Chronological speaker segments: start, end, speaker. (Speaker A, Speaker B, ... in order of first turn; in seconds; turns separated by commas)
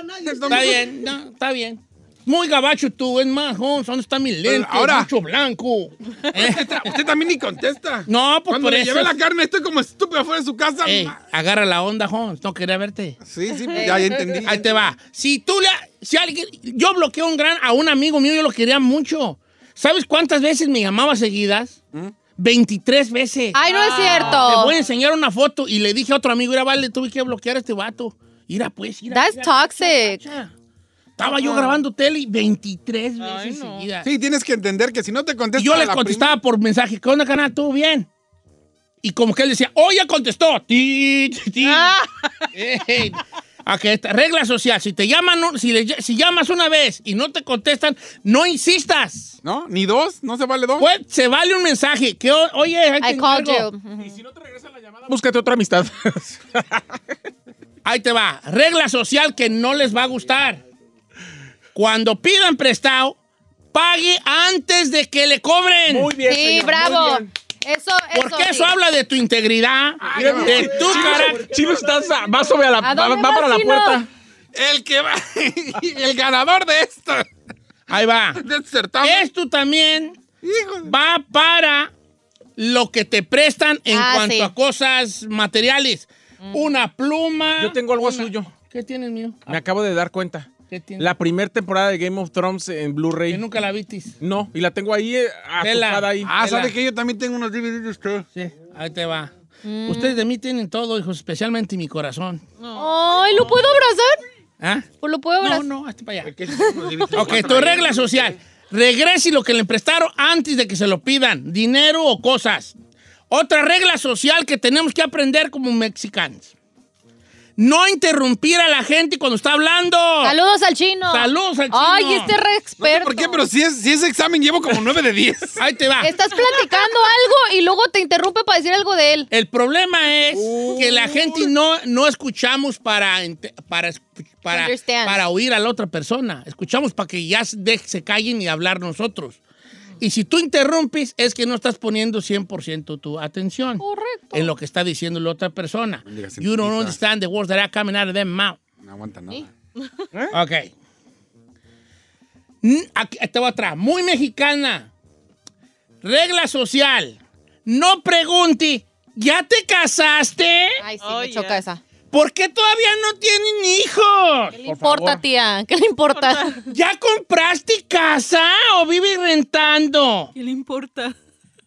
Speaker A: 0.2-0.9, Speaker B: 0.4-6.9, Speaker A: 4.4-5.1, Speaker A: 6.3-11.2, Speaker B: 8.1-9.1, Speaker B: 10.8-13.2, Speaker A: 13.2-14.9, Speaker C: 13.7-14.1, Speaker B: 13.7-21.8, Speaker B: 22.4-30.5, Speaker C: 23.5-24.7, Speaker D: 23.6-24.5, Speaker C: 29.1-30.2, Speaker B: 31.2-34.1, Speaker C: 31.4-31.7, Speaker D: 33.2-33.9, Speaker A: 34.0-36.4, Speaker B: 35.5-38.1, Speaker B: 39.0-42.0, Speaker D: 41.6-42.4, Speaker B: 42.5-49.4, Speaker A: 49.4-50.9, Speaker B: 50.8-53.7, Speaker C: 53.0-54.2, Speaker E: 54.0-57.0, Speaker B: 57.8-60.6, Speaker B: 61.7-63.2, Speaker B: 63.7-66.1, Speaker E: 65.9-67.3, Speaker C: 66.2-68.7, Speaker B: 68.1-71.5, Speaker A: 70.0-71.4, Speaker E: 70.1-74.1, Speaker C: 72.8-74.0, Speaker A: 74.5-77.3, Speaker B: 77.9-78.4, Speaker A: 78.4-79.3, Speaker B: 79.0-80.2, Speaker A: 80.4-80.9, Speaker B: 80.8-81.9, Speaker B: 82.6-89.6, Speaker C: 83.9-84.5, Speaker E: 87.6-88.5, Speaker E: 89.5-93.4, Speaker B: 90.7-91.1, Speaker B: 93.3-94.1, Speaker E: 94.2-96.3, Speaker B: 95.6-96.7, Speaker A: 96.2-98.3, Speaker B: 98.3-99.3, Speaker C: 99.6-100.2, Speaker B: 99.8-102.4, Speaker D: 102.6-103.7, Speaker C: 102.8-104.2, Speaker B: 104.6-104.9, Speaker C: 105.0-105.6, Speaker B: 105.4-106.3, Speaker A: 106.2-108.4, Speaker C: 106.5-107.1, Speaker B: 107.1-112.7, Speaker B: 113.3-116.5, Speaker B: 117.6-120.3, Speaker C: 120.2-123.4, Speaker B: 121.1-122.3, Speaker A: 122.8-125.6, Speaker B: 125.6-126.1, Speaker C: 126.0-129.3, Speaker B: 129.3-139.4, Speaker E: 130.3-131.3, Speaker C: 134.5-135.2, Speaker B: 140.0-148.6, Speaker C: 143.8-144.5, Speaker A: 146.0-147.0, Speaker A: 148.8-149.5, Speaker B: 150.3-150.7, Speaker B: 152.6-154.9, Speaker B: 156.0-160.8, Speaker C: 160.8-161.8, Speaker D: 161.0-161.6, Speaker B: 162.1-164.6, Speaker C: 164.5-166.6, Speaker E: 164.6-165.2, Speaker D: 166.1-166.6, Speaker B: 166.7-170.3, Speaker D: 170.3-171.1